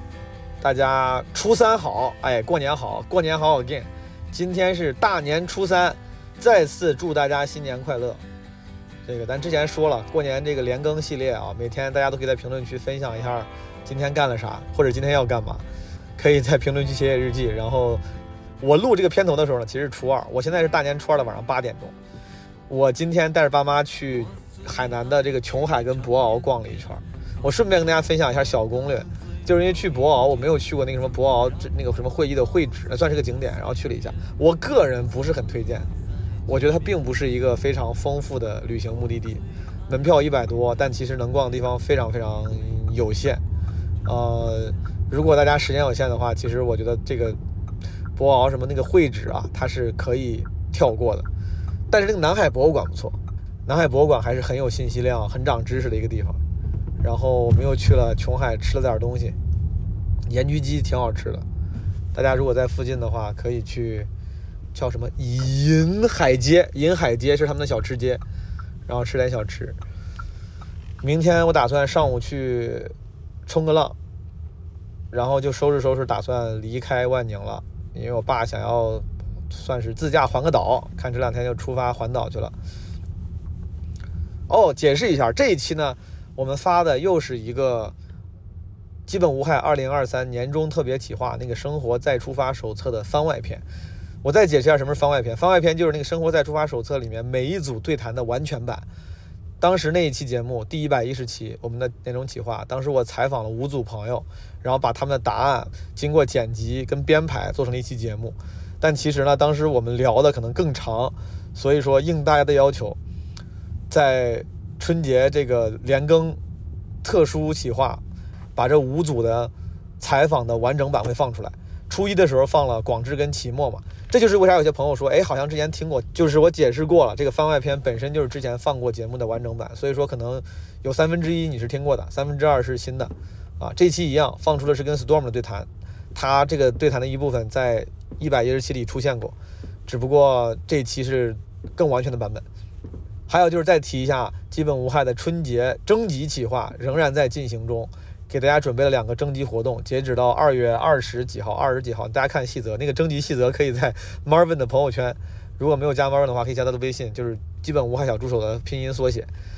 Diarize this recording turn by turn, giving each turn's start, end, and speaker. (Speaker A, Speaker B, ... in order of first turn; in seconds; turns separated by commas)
Speaker A: 0.6-8.2, Speaker A: 9.1-15.6, Speaker A: 16.2-18.0, Speaker A: 18.6-21.9, Speaker A: 22.7-35.9, Speaker A: 36.5-43.4, Speaker A: 44.0-47.4, Speaker A: 48.2-51.3, Speaker A: 51.9-56.4, Speaker A: 57.0-59.4, Speaker A: 60.3-61.4, Speaker A: 62.1-64.1, Speaker A: 64.8-68.2, Speaker A: 68.9-69.8, Speaker A: 71.0-72.9, Speaker A: 73.5-74.0, Speaker A: 75.1-82.5, Speaker A: 84.5-87.9, Speaker A: 89.1-93.6, Speaker A: 94.2-98.8, Speaker A: 99.6-113.0, Speaker A: 113.9-116.4, Speaker A: 117.0-118.0, Speaker A: 118.6-139.3, Speaker A: 139.9-142.4, Speaker A: 143.3-159.3